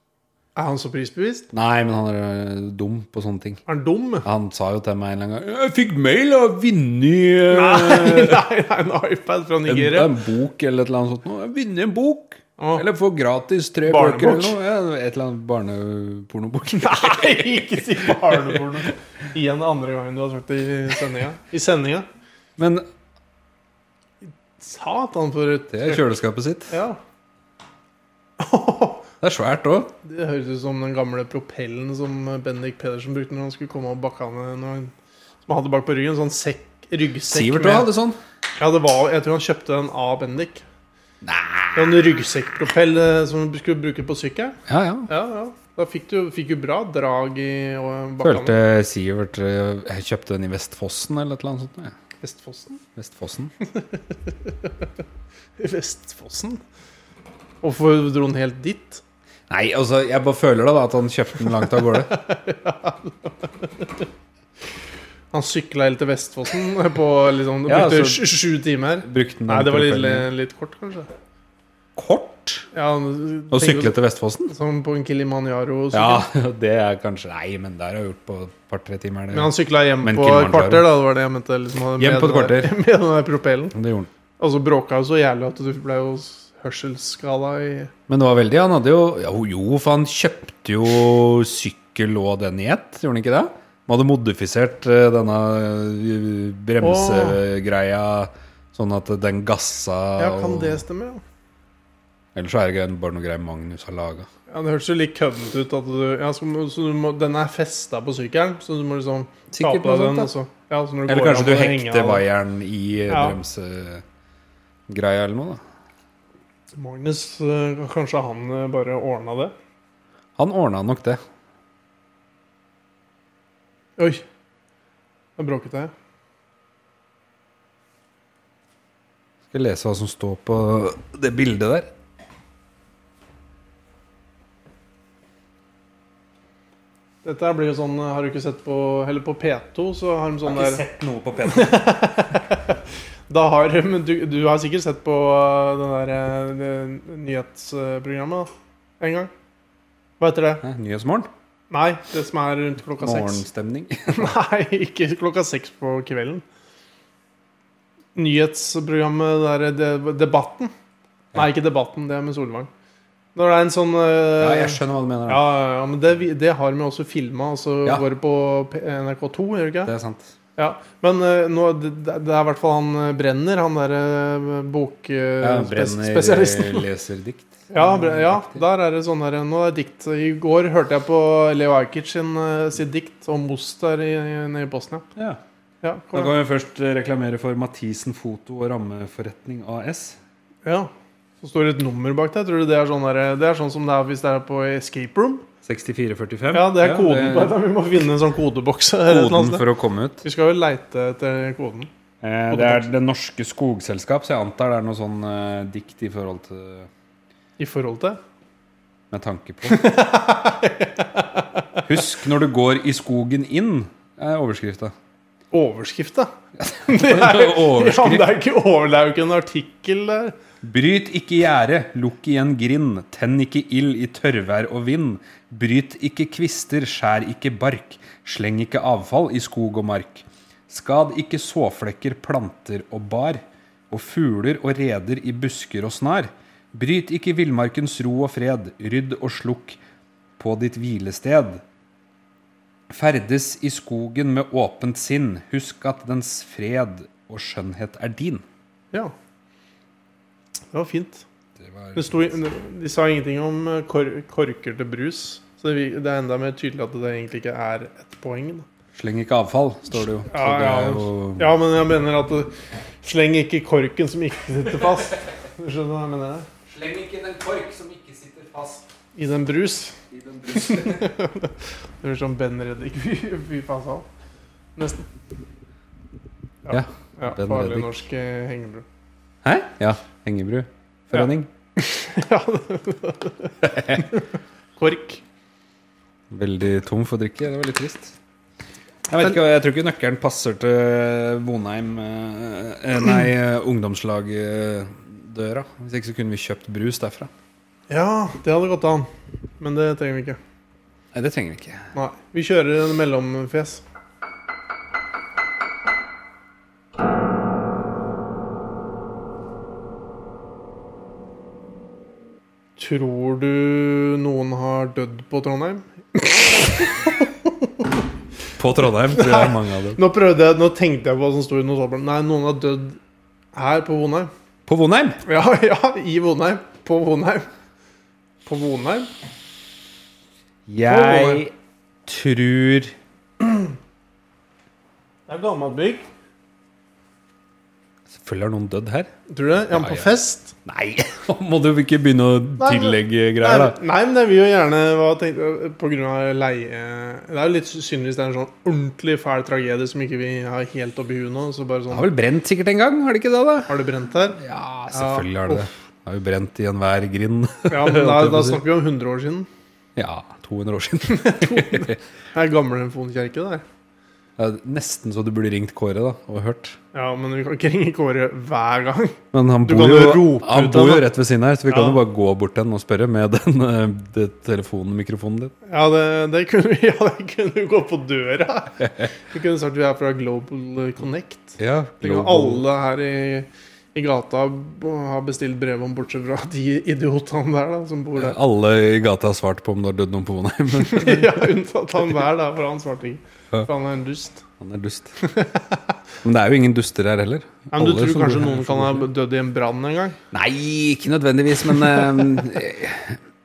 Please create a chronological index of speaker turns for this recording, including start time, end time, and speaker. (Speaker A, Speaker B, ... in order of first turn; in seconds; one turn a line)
Speaker A: 0.6-1.5
Speaker B: 1.5-3.6
Speaker A: 3.7-4.2
Speaker B: 4.2-8.4
Speaker A: 7.5-10.1
Speaker B: 9.7-18.7
Speaker A: 12.6-12.8
Speaker A: 13.8-14.6
Speaker A: 16.7-22.1
Speaker B: 22.6-22.9
Speaker A: 24.6-26.1
Speaker B: 25.7-26.7
Speaker A: 26.7-27.0
Speaker A: 28.4-29.1
Speaker B: 29.2-29.9
Speaker A: 30.0-34.9
Speaker A: 35.4-37.9
Speaker B: 37.3-38.2
Speaker A: 38.6-40.6
Speaker B: 41.2-42.0
Speaker A: 41.7-48.6
Speaker B: 44.7-45.1
Speaker B: 48.2-51.9
Speaker A: 52.2-52.8
Speaker B: 53.0-53.5
Speaker A: 53.6-54.7
Speaker A: 55.6-56.6
Speaker A: 57.6-59.0
Speaker B: 59.5-62.1
Speaker A: 61.7-64.0
Speaker A: 65.3-71.1
Speaker B: 67.7-68.2
Speaker B: 69.0-70.3
Speaker B: 72.0-72.7
Speaker A: 72.7-74.0
Speaker B: 73.5-74.5
Speaker A: 74.5-76.3
Speaker B: 75.9-80.9
Speaker A: 79.3-83.7
Speaker B: 82.0-82.7
Speaker B: 83.7-84.1
Speaker A: 84.4-87.9
Speaker B: 88.1-100.8
Speaker A: 96.8-97.4
Speaker A: 100.2-101.2
Speaker B: 102.3-104.3
Speaker A: 104.5-112.2
Speaker B: 109.5-110.3
Speaker B: 111.1-114.0
Speaker A: 113.1-113.4
Speaker B: 114.9-115.6
Speaker A: 116.7-119.5
Speaker B: 120.4-121.2
Speaker A: 124.0-124.2
Speaker A: 125.4-125.9
Speaker B: 129.5-131.9
Speaker A: 137.2-140.8
Speaker B: 140.4-141.8
Speaker A: 141.4-149.3
Speaker A: 150.2-150.6
Speaker B: 150.6-151.3
Speaker A: 151.7-153.4
Speaker B: 153.0-154.3
Speaker A: 154.1-156.4
Speaker A: 158.2-160.7
Speaker A: 161.3-162.7
Speaker A: 163.3-169.9
Speaker B: 164.4-165.4
Speaker B: 169.8-170.3
Speaker A: 170.6-176.9
Speaker B: 175.4-178.6
Speaker A: 177.7-185.1
Speaker B: 185.2-185.4
Speaker A: 185.8-186.3
Speaker B: 186.1-190.2
Speaker A: 190.6-190.9
Speaker A: 191.4-195.5
Speaker B: 195.6-197.6
Speaker A: 196.5-199.6
Speaker B: 199.1-200.2
Speaker A: 200.2-201.9
Speaker B: 202.2-206.9
Speaker A: 202.5-202.9
Speaker A: 207.6-208.2
Speaker B: 209.1-209.9
Speaker A: 209.7-211.9
Speaker B: 211.8-214.9
Speaker A: 215.5-216.3
Speaker B: 216.6-218.3
Speaker A: 216.9-220.3
Speaker B: 220.6-239.8
Speaker B: 240.4-241.6
Speaker B: 242.9-248.4
Speaker A: 250.7-251.2
Speaker B: 251.6-252.3
Speaker A: 251.9-258.6
Speaker B: 258.9-261.5
Speaker A: 260.2-266.5
Speaker B: 266.7-268.8
Speaker A: 269.1-270.0
Speaker B: 270.1-271.1
Speaker A: 270.5-274.1
Speaker A: 274.8-275.1
Speaker A: 276.6-278.9
Speaker B: 276.7-277.9
Speaker B: 279.4-281.5
Speaker A: 281.1-285.2
Speaker B: 283.6-284.0
Speaker B: 286.3-288.1
Speaker B: 289.1-297.3
Speaker A: 297.9-299.1
Speaker A: 299.6-300.4
Speaker B: 301.1-301.9
Speaker A: 301.9-303.8
Speaker A: 312.8-317.9
Speaker B: 318.6-320.0
Speaker A: 318.9-323.0
Speaker A: 323.5-324.3
Speaker B: 324.6-325.2
Speaker A: 325.2-327.5
Speaker A: 328.4-329.1
Speaker B: 330.7-331.5
Speaker A: 330.8-331.4
Speaker B: 332.1-332.9
Speaker A: 335.3-336.1
Speaker B: 338.1-339.1
Speaker A: 339.3-340.5
Speaker B: 339.7-340.1
Speaker B: 340.6-343.8
Speaker A: 342.6-352.1
Speaker B: 351.9-353.7
Speaker A: 353.7-355.7
Speaker B: 354.4-358.6
Speaker A: 357.7-359.5
Speaker B: 359.9-361.9
Speaker A: 361.1-363.6
Speaker B: 364.4-366.8
Speaker A: 366.9-371.1
Speaker B: 369.3-375.5
Speaker A: 371.7-372.0
Speaker A: 375.6-388.4
Speaker B: 378.8-379.1
Speaker B: 381.6-382.6
Speaker B: 388.1-391.5
Speaker A: 390.8-394.4
Speaker B: 394.6-395.1
Speaker A: 395.2-395.8
Speaker B: 396.2-399.1
Speaker A: 397.7-400.2
Speaker B: 400.3-403.2